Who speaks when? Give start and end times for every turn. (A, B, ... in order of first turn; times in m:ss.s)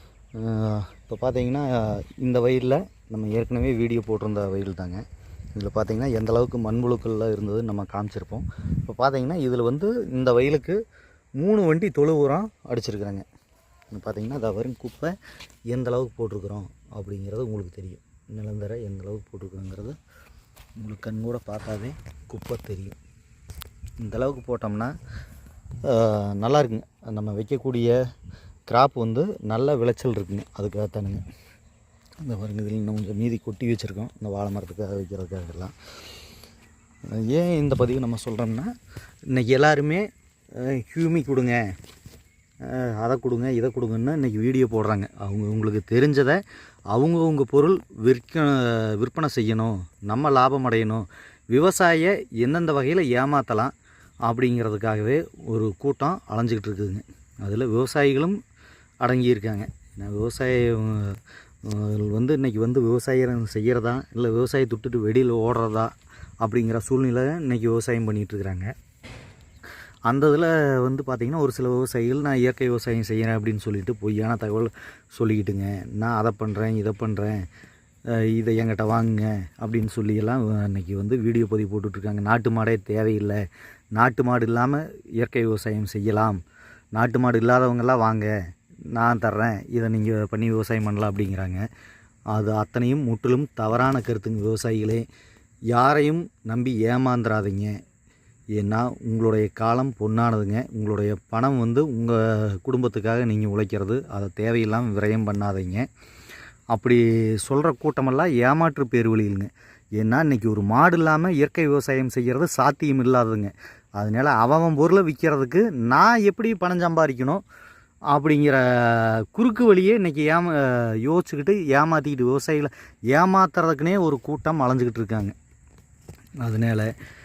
0:00.4-0:10.8 A
0:11.4-0:13.3 A
0:13.9-0:15.2 A
0:15.7-0:20.0 A
0:20.8-0:23.0 A
0:24.0-0:24.9 A
0:25.8-0:28.0 A
0:28.7-0:31.2 A
0:32.2-0:35.8 A
0:37.1-0:38.7 A
0:39.3-0:41.6 A
0:42.6-0:46.4 A
0:46.9-0:53.7 A
0:54.3-0:58.4 A
0:59.0-1:08.7 A
1:10.1-1:17.4 A
1:18.1-1:23.4 A
1:24.0-1:26.4 A
1:27.0-1:28.3 A
1:28.9-1:31.6 A
1:32.3-1:35.1 A
1:35.7-1:37.8 A
1:38.6-1:45.9 A
1:46.7-1:57.4 A
1:58.1-2:05.4 A
2:06.4-2:06.9 A